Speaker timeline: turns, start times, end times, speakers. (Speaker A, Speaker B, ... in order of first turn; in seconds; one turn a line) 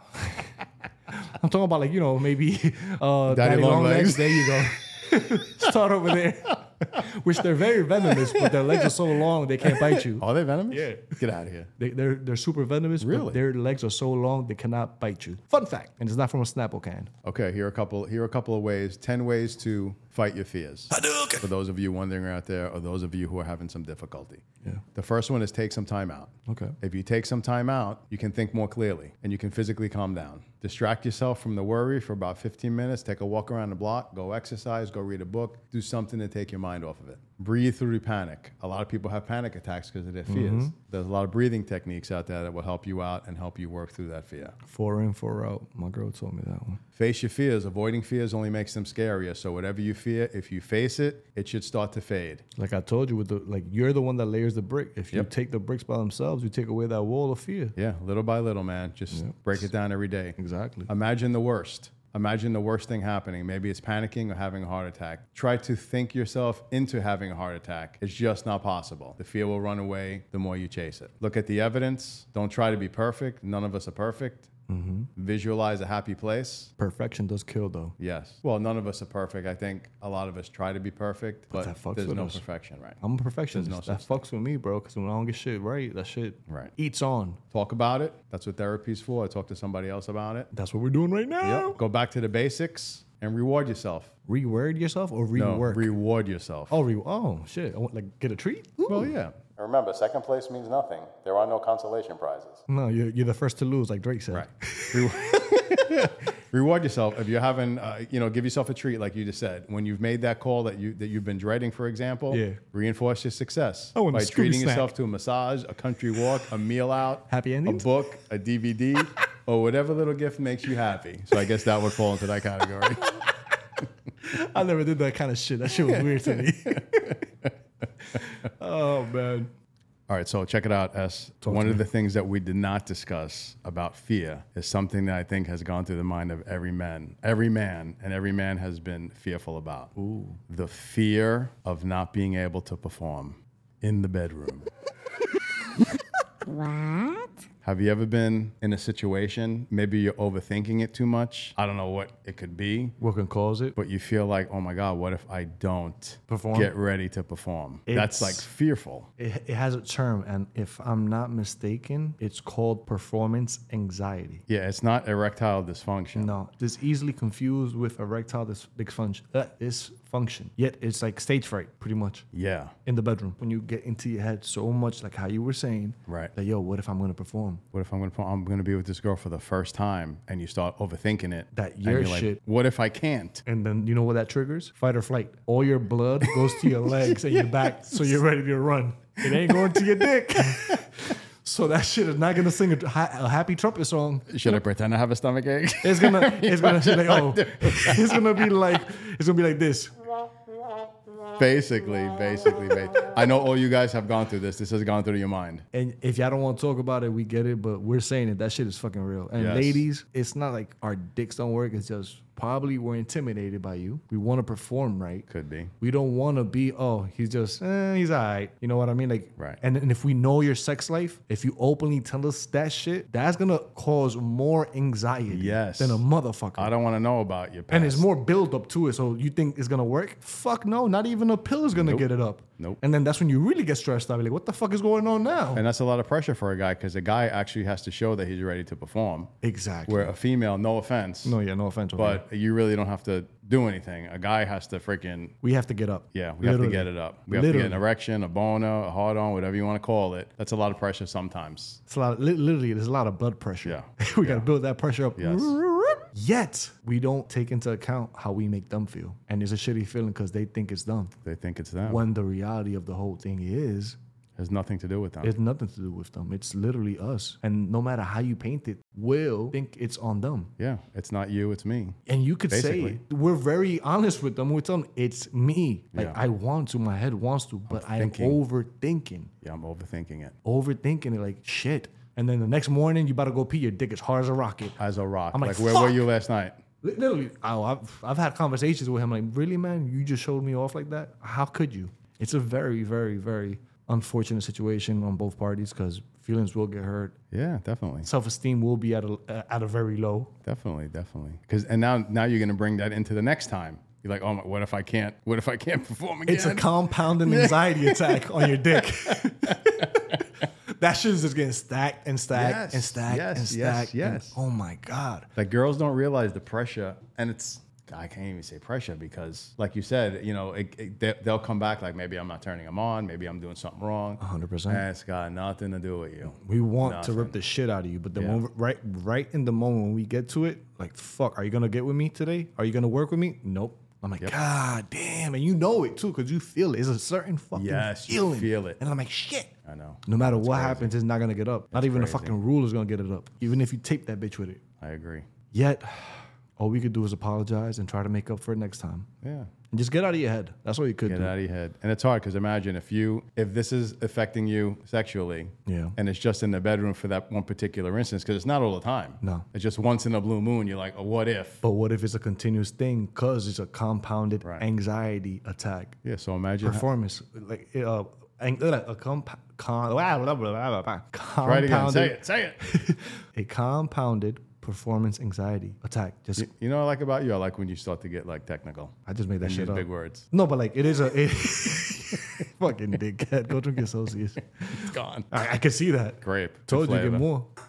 Speaker A: 0.1-0.5
Speaker A: 1.1-11.2
Speaker B: 3.3-5.7
Speaker B: 8.0-9.1
Speaker B: 9.6-11.7
Speaker A: 11.8-17.1
Speaker B: 13.0-13.4
Speaker B: 17.2-24.4
Speaker A: 20.9-21.5
Speaker B: 24.9-44.5
Speaker A: 26.5-26.7
Speaker A: 40.3-40.7
Speaker A: 44.6-46.8
Speaker B: 46.9-52.4
Speaker A: 52.5-57.8
Speaker B: 57.8-60.4
Speaker A: 59.1-59.4
Speaker A: 60.4-60.9
Speaker B: 60.9-74.5
Speaker A: 74.7-75.1
Speaker B: 75.2-76.7
Speaker A: 76.8-77.9
Speaker B: 78.0-83.0
Speaker A: 81.5-82.4
Speaker A: 83.0-87.4
Speaker B: 83.5-84.2
Speaker B: 86.5-86.7
Speaker B: 87.5-90.5
Speaker A: 90.5-91.8
Speaker B: 91.4-94.1
Speaker A: 94.2-95.9
Speaker B: 95.3-96.8
Speaker A: 96.7-99.1
Speaker B: 98.9-102.6
Speaker A: 102.7-106.1
Speaker B: 104.3-123.2
Speaker A: 112.3-112.6
Speaker A: 113.9-114.9
Speaker A: 117.3-117.9
Speaker A: 124.2-127.3
Speaker B: 125.9-127.5
Speaker A: 128.0-129.5
Speaker B: 130.1-139.9
Speaker A: 131.4-131.8
Speaker A: 139.9-140.4
Speaker B: 140.5-144.7
Speaker B: 147.6-152.9
Speaker A: 153.0-153.8
Speaker B: 153.8-159.1
Speaker A: 156.3-156.7
Speaker A: 157.9-158.5
Speaker A: 159.2-164.4
Speaker B: 164.5-166.3
Speaker A: 166.1-172.3
Speaker B: 172.3-172.7
Speaker A: 172.8-177.6
Speaker B: 176.1-176.3
Speaker B: 177.7-183.4
Speaker A: 181.5-182.4
Speaker A: 183.4-194.6
Speaker B: 186.2-188.1
Speaker B: 189.2-190.8
Speaker B: 194.3-198.5
Speaker A: 195.8-200.0
Speaker B: 201.3-205.6
Speaker A: 205.7-215.3
Speaker B: 209.3-209.8
Speaker B: 215.3-215.7
Speaker A: 215.8-226.7
Speaker B: 225.3-226.0
Speaker B: 226.6-228.1
Speaker A: 227.7-235.6
Speaker B: 231.7-232.1
Speaker B: 235.5-239.3
Speaker A: 239.4-240.1
Speaker B: 239.8-241.4
Speaker A: 241.2-242.2
Speaker B: 241.9-245.3
Speaker A: 245.4-247.8
Speaker B: 246.1-251.8
Speaker A: 251.9-261.1
Speaker B: 253.6-254.5
Speaker B: 255.2-255.6
Speaker B: 261.2-262.0
Speaker A: 261.8-264.0
Speaker B: 264.4-265.3
Speaker A: 265.2-270.5
Speaker B: 270.6-273.0
Speaker A: 272.1-279.3
Speaker B: 275.9-276.2
Speaker B: 277.7-278.4
Speaker B: 279.4-280.3
Speaker A: 280.4-284.8
Speaker B: 284.8-286.6
Speaker A: 285.3-286.1
Speaker A: 286.8-297.2
Speaker B: 297.3-298.1
Speaker A: 298.0-300.3
Speaker B: 300.4-310.2
Speaker A: 306.3-315.3
Speaker B: 312.3-314.4
Speaker B: 315.4-327.4
Speaker A: 324.2-324.8
Speaker A: 326.3-339.5
Speaker B: 328.1-328.4
Speaker B: 337.5-338.8
Speaker B: 339.6-340.9
Speaker A: 340.1-344.6
Speaker B: 341.7-342.4
Speaker B: 344.8-345.3
Speaker A: 345.5-349.1
Speaker B: 349.2-349.5
Speaker A: 349.7-351.3
Speaker B: 351.1-361.6
Speaker A: 355.6-355.9
Speaker A: 361.6-366.0
Speaker B: 366.0-366.9
Speaker A: 366.6-376.5
Speaker B: 371.4-372.6
Speaker B: 376.4-380.3
Speaker A: 379.1-387.5
Speaker B: 384.7-385.3
Speaker B: 386.2-387.2